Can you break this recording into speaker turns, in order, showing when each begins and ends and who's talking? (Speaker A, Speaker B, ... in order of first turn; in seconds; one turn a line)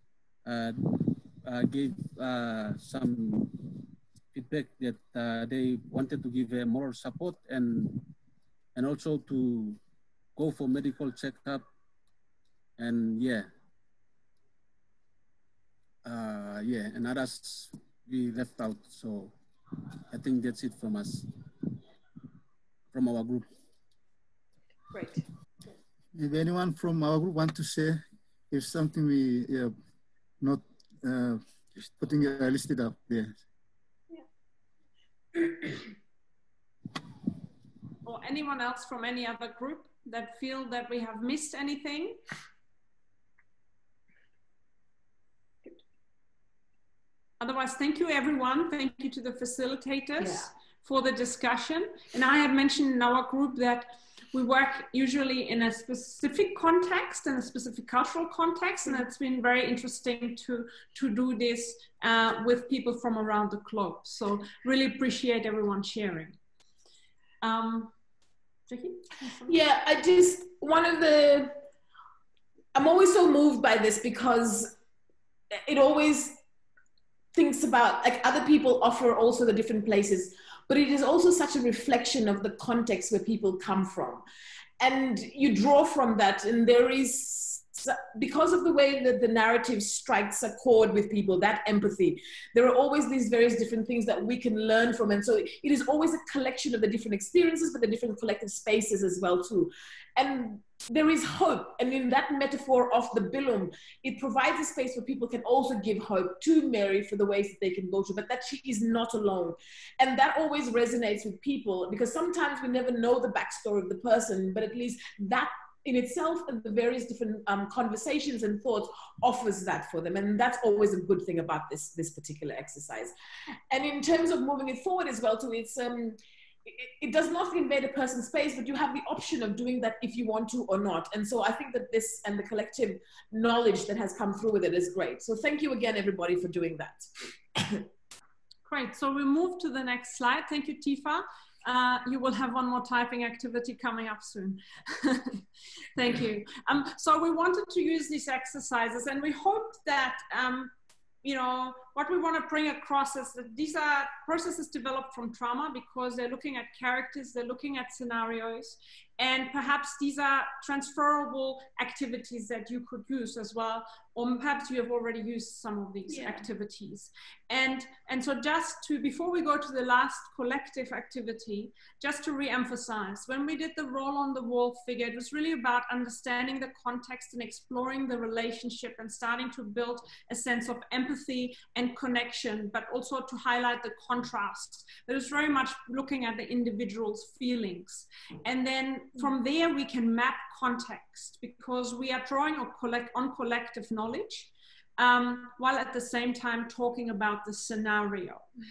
Speaker A: 0.5-8.1
Speaker A: 8.8-9.8
Speaker A: 10.4-11.7
Speaker A: 12.8-13.5
Speaker A: 16.1-19.3
Speaker A: 20.1-21.3
Speaker A: 22.9-23.5
Speaker B: 24.9-25.2
Speaker C: 26.1-29.7
Speaker C: 30.4-31.4
Speaker C: 31.9-33.4
Speaker D: 38.0-42.2
Speaker D: 47.4-66.4
Speaker B: 50.2-50.5
Speaker D: 67.4-67.9
Speaker D: 68.7-69.6
Speaker B: 69.5-71.6
Speaker B: 72.8-74.8
Speaker B: 75.6-76.4
Speaker B: 77.3-84.2
Speaker B: 84.8-123.1
Speaker B: 123.7-137.1
Speaker B: 137.6-137.8
Speaker D: 138.7-145.4
Speaker D: 145.9-150.7
Speaker D: 151.2-198.5
Speaker B: 166.1-166.5